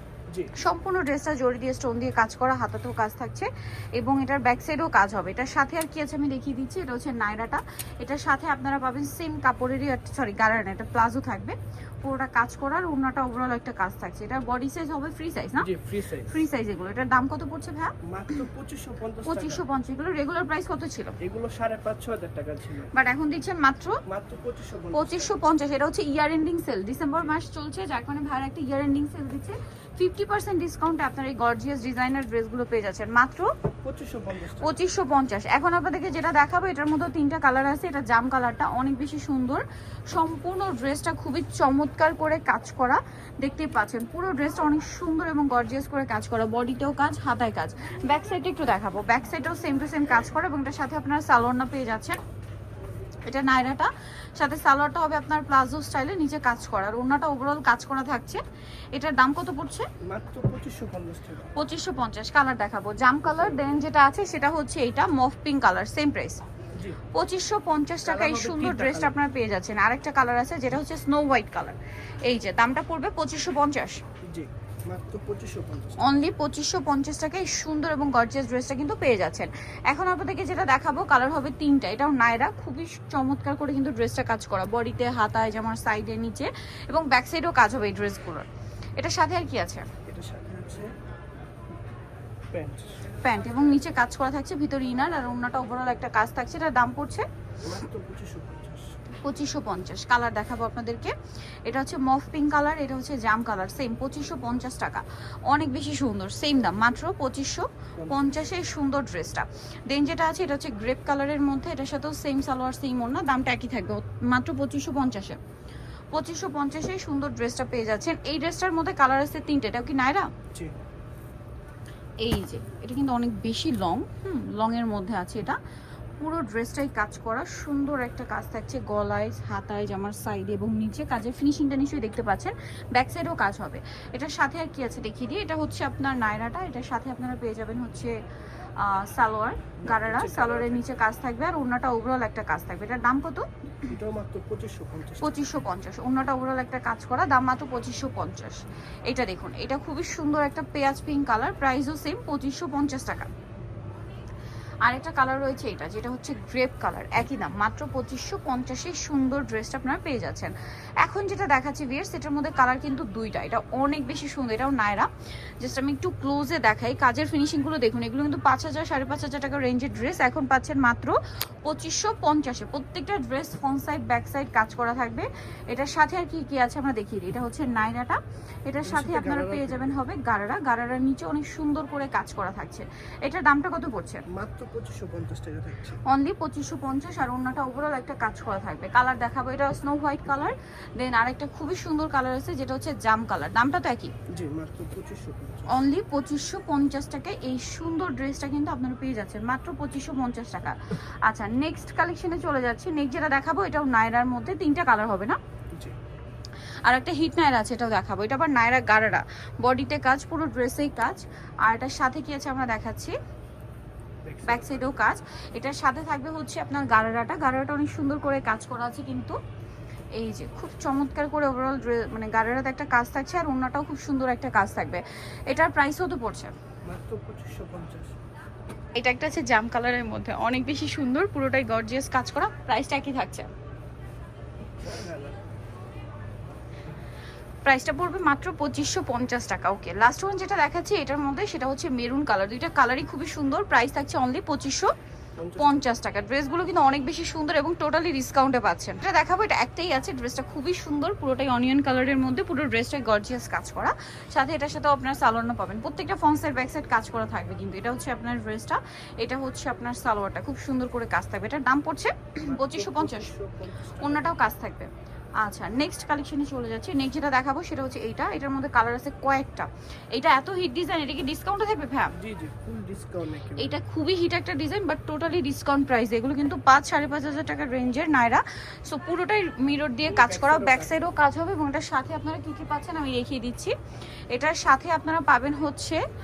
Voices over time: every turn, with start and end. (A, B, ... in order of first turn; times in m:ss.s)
0:00.6-0:15.7 A
0:15.6-0:16.4 B
0:16.2-0:17.9 A
0:18.0-0:19.6 B
0:19.2-0:21.1 A
0:21.2-0:22.9 B
0:22.9-0:24.0 A
0:24.0-0:25.4 B
0:24.9-0:33.5 A
0:33.8-0:34.7 B
0:34.6-0:52.2 A
0:53.2-0:58.4 A
0:58.9-0:59.9 A
1:00.0-1:01.5 B
1:01.5-1:06.4 A
1:07.1-1:14.0 A
1:08.0-1:09.2 B
1:14.2-1:16.2 B
1:16.0-1:28.4 A
1:29.0-1:29.9 A
1:30.0-1:30.9 B
1:32.5-1:33.0 B
1:33.2-1:37.2 A
1:37.6-1:39.0 B
1:39.2-1:41.1 A
1:41.6-1:55.4 A
1:56.1-2:00.3 A
2:02.2-2:05.6 A
2:06.2-2:18.2 A
2:18.8-2:23.9 A
2:19.8-2:21.0 B
2:23.8-2:25.4 B
2:25.2-2:33.3 A
2:34.8-3:04.2 A
2:58.8-3:00.0 B
3:04.3-3:06.0 B
3:06.0-3:14.1 A
3:14.3-3:15.7 B
3:15.7-3:25.4 A
3:26.8-3:33.2 A
3:34.2-3:34.9 B
3:34.4-3:39.4 A
3:40.2-3:46.5 A
3:46.8-3:48.2 B
3:49.0-3:53.5 A
3:54.8-3:55.4 B
3:57.6-4:04.9 A
4:05.4-4:05.8 B
4:05.6-4:23.3 A
4:22.4-4:24.4 B
4:24.0-4:32.1 A
4:32.2-4:33.8 B
4:33.6-4:43.7 A
4:40.1-4:41.0 B
4:44.3-4:46.0 A